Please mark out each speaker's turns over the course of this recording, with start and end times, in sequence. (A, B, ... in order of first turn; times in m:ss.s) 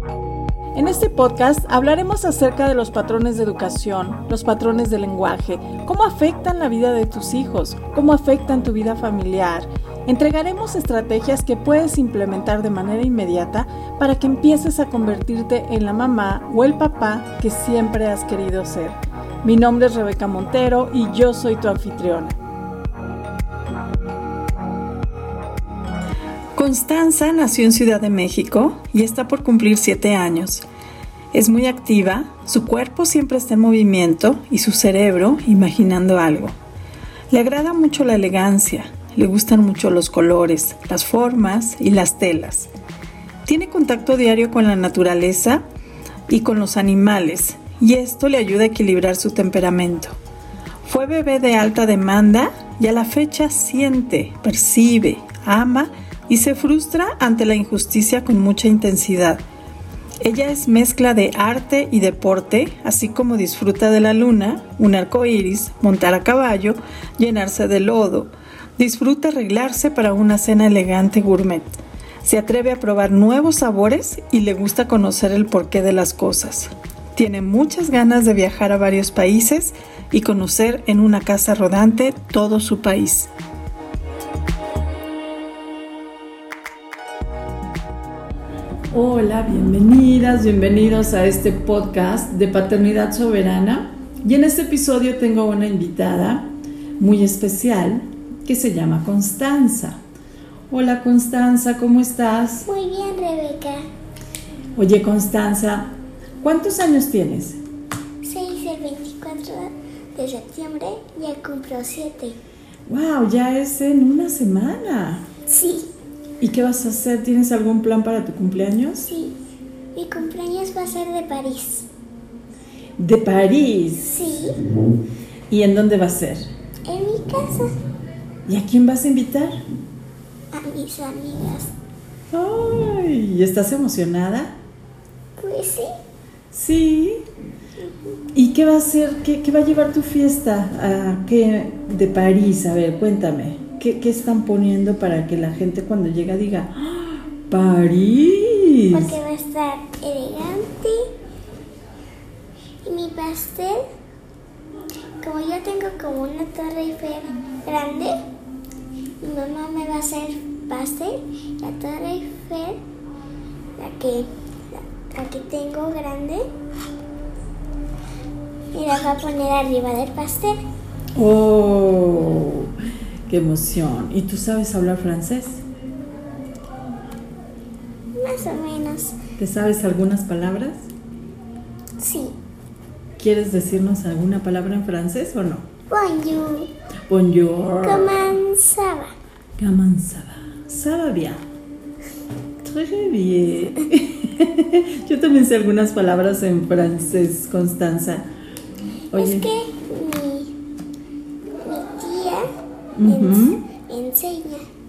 0:00.8-0:22.4 A
0:26.6-0:30.6 A
0:31.3-0:36.6 A
0:37.3-0:42.7 A
0:43.5-0:45.6 A
0:46.3-0:50.2 A
0:50.8-0:59.4 A
1:00.2-1:11.7 A
1:12.2-1:23.3 A
1:28.9-1:40.0 A
1:40.7-1:42.7 A
1:42.7-1:43.8 B
1:44.8-1:47.6 A
1:48.2-1:52.4 B
1:52.9-1:55.2 A
1:55.5-1:55.9 B
1:56.4-1:59.1 A
1:59.0-1:59.4 B
2:00.0-2:01.9 B
2:03.0-2:04.2 A
2:04.0-2:04.6 B
2:05.5-2:06.5 A
2:06.9-2:07.7 B
2:08.4-2:09.6 A
2:10.5-2:11.7 B
2:12.3-2:14.6 A
2:15.4-2:15.9 B
2:16.5-2:17.2 A
2:18.3-2:29.2 A
2:28.9-2:31.1 B
2:32.8-2:33.8 B
2:35.2-2:38.2 B
2:39.2-2:42.8 B
2:43.8-2:46.4 B
2:48.7-2:50.6 B
2:51.2-2:52.7 A
2:53.3-2:55.6 A
2:58.2-2:59.2 B
2:59.4-3:00.9 A
3:02.0-3:02.4 B
3:03.2-3:05.7 A
3:05.9-3:06.7 B
3:07.1-3:08.2 A
3:07.8-3:09.1 B
3:09.6-3:11.4 A
3:12.6-3:18.2 A
3:19.1-3:19.5 A
3:19.1-3:20.5 B
3:21.6-3:22.5 B
3:23.0-3:23.6 A
3:23.0-3:24.6 B